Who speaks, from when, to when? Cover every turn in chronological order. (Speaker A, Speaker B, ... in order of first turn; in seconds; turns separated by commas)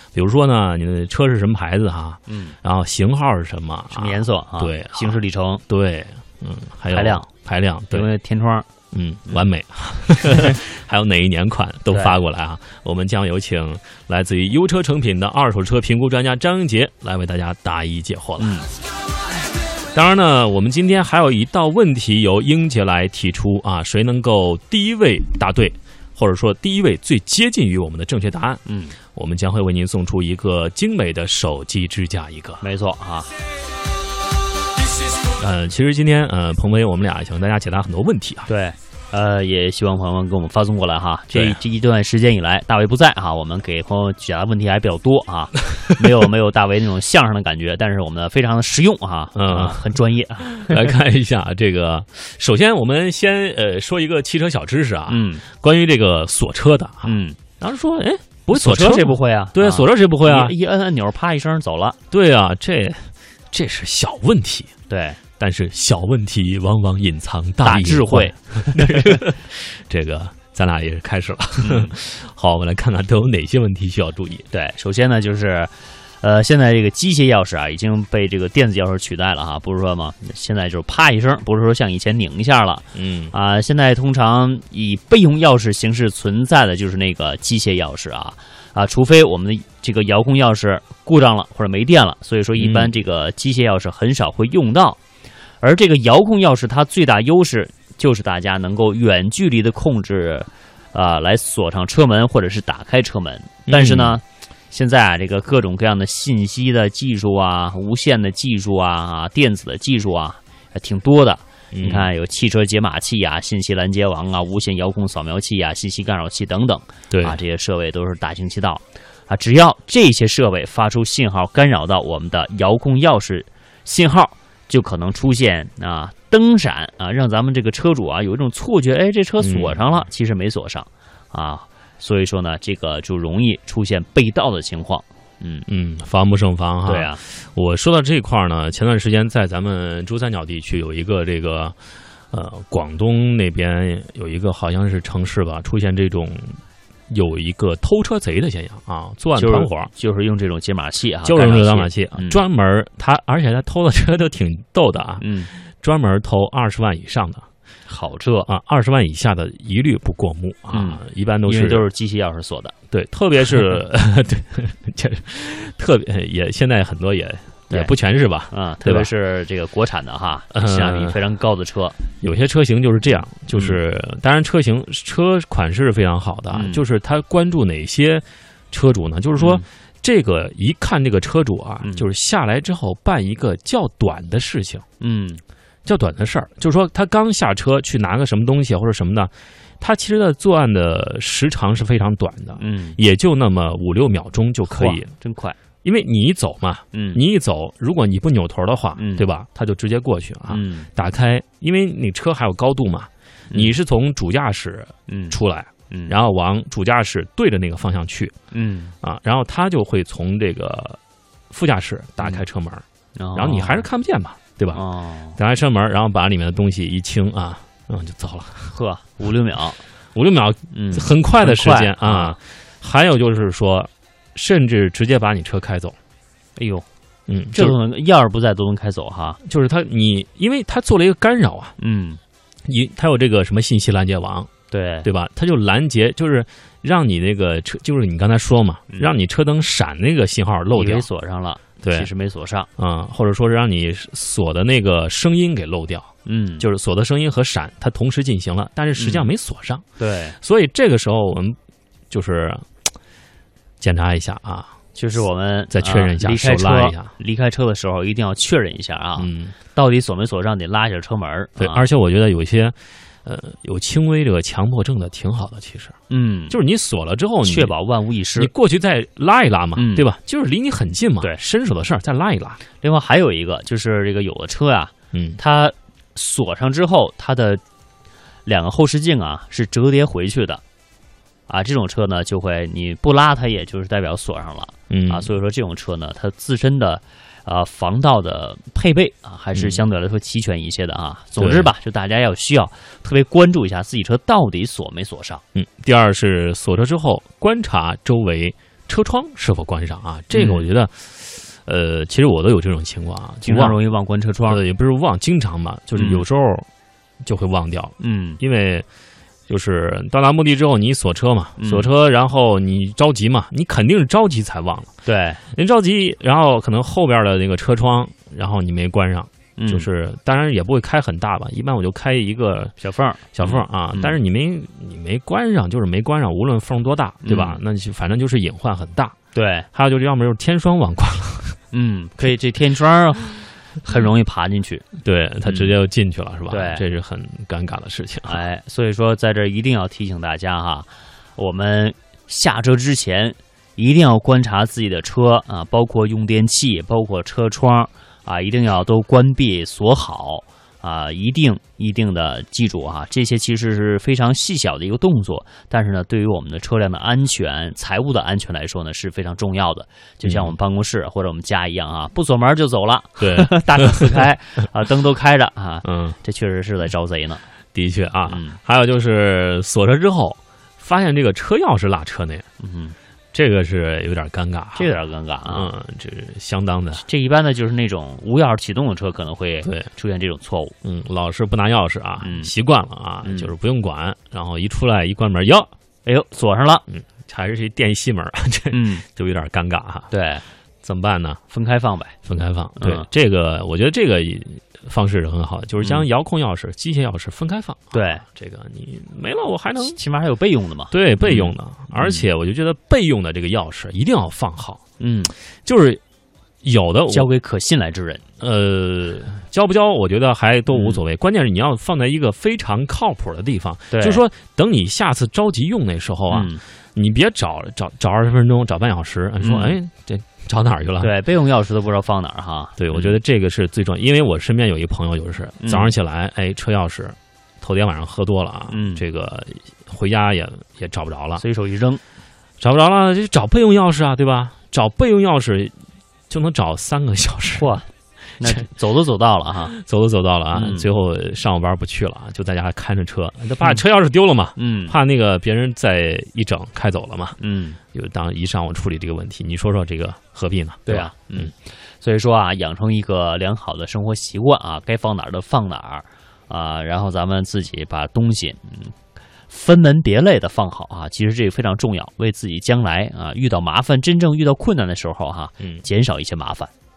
Speaker A: 0.1-8.1, Speaker B: 2.3-2.5, Speaker B: 3.9-5.6, Speaker B: 6.9-7.3, Speaker B: 7.9-8.7, Speaker A: 8.9-18.6, Speaker B: 11.9-12.2, Speaker B: 18.4-18.7, Speaker A: 19.9-28.6, Speaker B: 28.6-29.0, Speaker A: 29.1-32.6, Speaker B: 32.6-33.3, Speaker A: 35.4-38.5, Speaker B: 38.5-50.9, Speaker A: 41.3-41.6, Speaker A: 49.3-49.9, Speaker A: 50.4-60.5, Speaker B: 55.1-55.4, Speaker B: 57.0-57.4, Speaker B: 58.5-62.0, Speaker A: 62.1-64.7, Speaker B: 64.9-65.2, Speaker A: 65.4-74.5, Speaker B: 67.6-69.3, Speaker B: 71.6-71.9, Speaker B: 74.5-95.0, Speaker A: 82.9-83.3, Speaker A: 92.5-92.9, Speaker B: 95.6-135.7, Speaker A: 103.7-104.2, Speaker A: 111.7-112.1, Speaker A: 117.1-117.4, Speaker A: 129.4-129.8, Speaker A: 135.7-141.8, Speaker B: 136.9-137.2, Speaker A: 142.3-149.9, Speaker B: 149.3-152.4, Speaker A: 151.2-157.4, Speaker B: 155.2-155.5, Speaker B: 157.9-158.5, Speaker A: 158.5-161.8, Speaker B: 160.7-162.7, Speaker A: 162.9-169.1, Speaker B: 168.5-172.0, Speaker A: 170.5-171.2, Speaker A: 172.2-184.8, Speaker B: 173.5-173.8, Speaker B: 176.5-176.8, Speaker B: 179.3-179.6, Speaker B: 185.0-185.4, Speaker A: 185.8-195.1, Speaker B: 192.6-193.0, Speaker B: 194.7-195.6, Speaker A: 195.8-208.3, Speaker B: 196.9-197.2, Speaker B: 199.0-199.3, Speaker B: 200.5-200.9, Speaker B: 205.1-205.4, Speaker B: 205.9-206.2, Speaker B: 208.5-208.9, Speaker A: 209.0-211.0, Speaker A: 211.5-214.8, Speaker B: 213.2-213.8, Speaker B: 214.7-215.4, Speaker A: 215.4-218.7, Speaker B: 218.7-219.8, Speaker A: 220.1-225.9, Speaker B: 220.7-222.3, Speaker B: 226.6-226.8, Speaker A: 227.3-227.8, Speaker B: 227.5-229.4, Speaker A: 229.4-231.7, Speaker B: 231.8-232.2, Speaker A: 232.6-234.5, Speaker B: 234.7-235.1, Speaker A: 235.0-241.1, Speaker B: 240.7-242.7, Speaker A: 241.8-242.1, Speaker A: 242.8-249.8, Speaker B: 246.2-246.7, Speaker B: 249.0-249.3, Speaker B: 250.0-250.4, Speaker A: 250.4-251.6, Speaker A: 252.1-252.8, Speaker A: 253.8-254.7, Speaker B: 254.9-261.9, Speaker A: 255.7-257.1, Speaker A: 259.2-259.6, Speaker A: 261.6-265.9, Speaker B: 266.1-266.6, Speaker A: 266.5-267.7, Speaker B: 267.4-268.5, Speaker A: 268.3-272.6, Speaker B: 269.8-270.1, Speaker B: 272.8-277.6, Speaker A: 275.1-275.4, Speaker B: 278.4-280.6, Speaker B: 281.5-295.4, Speaker A: 284.9-285.3, Speaker A: 289.5-289.8, Speaker A: 291.4-291.7, Speaker A: 295.5-303.8, Speaker B: 300.3-300.7, Speaker B: 303.4-304.6, Speaker A: 304.5-306.7, Speaker B: 305.9-306.2, Speaker A: 307.2-308.9, Speaker B: 308.0-308.4, Speaker A: 309.5-314.9, Speaker B: 311.6-311.9, Speaker B: 315.0-315.4, Speaker A: 315.5-322.7, Speaker B: 319.6-319.9, Speaker B: 322.8-324.2, Speaker A: 323.3-329.1, Speaker B: 327.2-327.6, Speaker B: 329.3-329.7, Speaker A: 329.7-331.6, Speaker B: 331.7-334.9, Speaker A: 335.0-338.4, Speaker B: 335.4-335.7, Speaker B: 336.5-336.8, Speaker B: 338.3-367.4, Speaker A: 360.2-360.5, Speaker A: 363.2-364.2, Speaker A: 365.8-366.2, Speaker A: 367.7-372.4, Speaker B: 368.3-368.6, Speaker B: 372.6-372.9, Speaker A: 373.3-374.9, Speaker B: 374.7-375.7, Speaker A: 375.4-377.0, Speaker B: 376.9-380.7, Speaker A: 380.8-385.7, Speaker B: 382.2-382.5, Speaker B: 383.2-383.5, Speaker B: 386.0-386.8, Speaker A: 386.9-390.1, Speaker B: 388.7-389.0, Speaker B: 390.1-390.4, Speaker A: 390.8-391.4, Speaker B: 391.5-392.1, Speaker A: 392.2-400.0, Speaker B: 392.8-393.1, Speaker B: 395.8-396.1, Speaker B: 397.9-398.2, Speaker B: 399.8-402.2, Speaker A: 400.9-404.8, Speaker B: 405.0-405.3, Speaker A: 405.6-406.0, Speaker A: 406.6-407.3, Speaker B: 407.1-408.2, Speaker A: 408.4-421.1, Speaker B: 410.7-411.0, Speaker B: 413.9-414.2, Speaker B: 416.3-416.6, Speaker B: 419.4-419.8, Speaker B: 421.0-423.1, Speaker A: 422.8-431.4, Speaker B: 425.6-425.9, Speaker B: 428.7-429.0, Speaker B: 431.4-432.0, Speaker A: 432.6-435.7, Speaker A: 436.3-437.8, Speaker B: 437.6-439.7, Speaker A: 439.6-447.4, Speaker B: 440.5-440.9, Speaker B: 444.6-444.9, Speaker B: 447.4-447.8, Speaker A: 447.9-451.5, Speaker B: 450.9-458.9, Speaker B: 459.5-466.7